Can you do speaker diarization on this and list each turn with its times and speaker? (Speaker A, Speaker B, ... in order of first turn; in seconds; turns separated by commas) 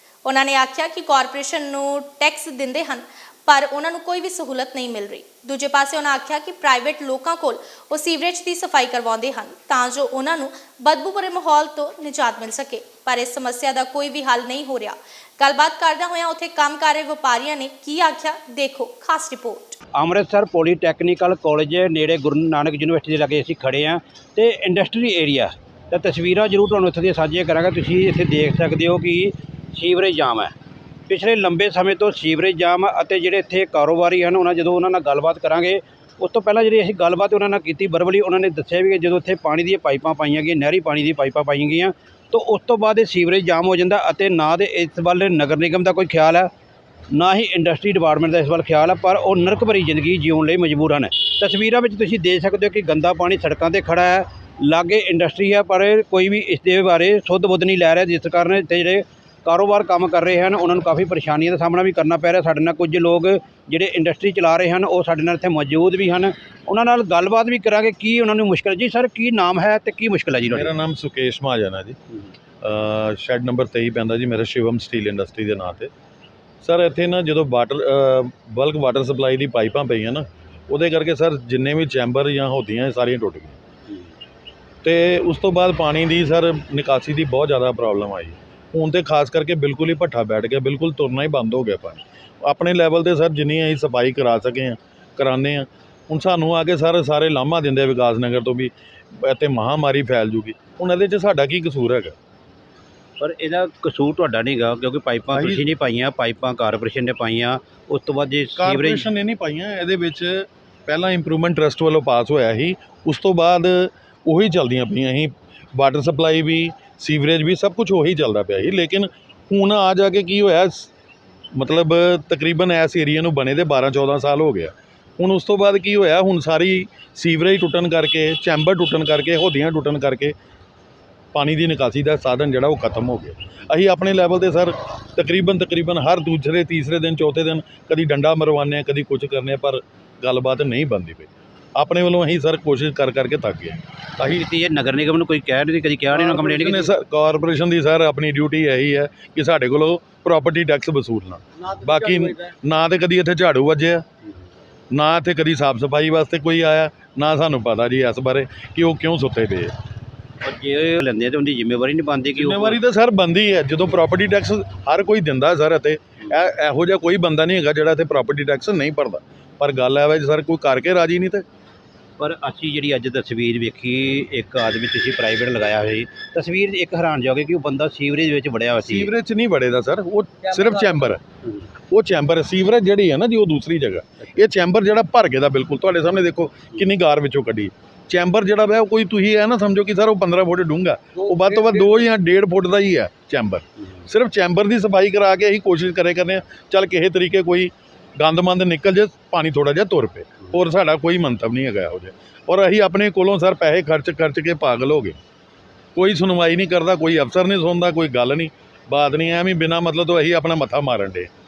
Speaker A: 0.2-19.8, Speaker B: 19.9-30.5, Speaker B: 31.1-46.5, Speaker B: 47.1-70.7, Speaker C: 70.4-72.0, Speaker C: 72.6-75.9, Speaker C: 76.6-83.6, Speaker C: 84.8-102.1, Speaker B: 103.2-109.1, Speaker C: 105.3-105.6, Speaker C: 108.6-120.9, Speaker C: 121.6-130.3, Speaker C: 131.3-143.8, Speaker B: 144.2-146.9, Speaker C: 146.1-154.0, Speaker C: 154.9-159.7, Speaker B: 160.4-162.8, Speaker C: 162.3-171.4, Speaker B: 172.2-179.1, Speaker C: 178.8-181.2, Speaker C: 181.9-205.2, Speaker C: 206.0-211.3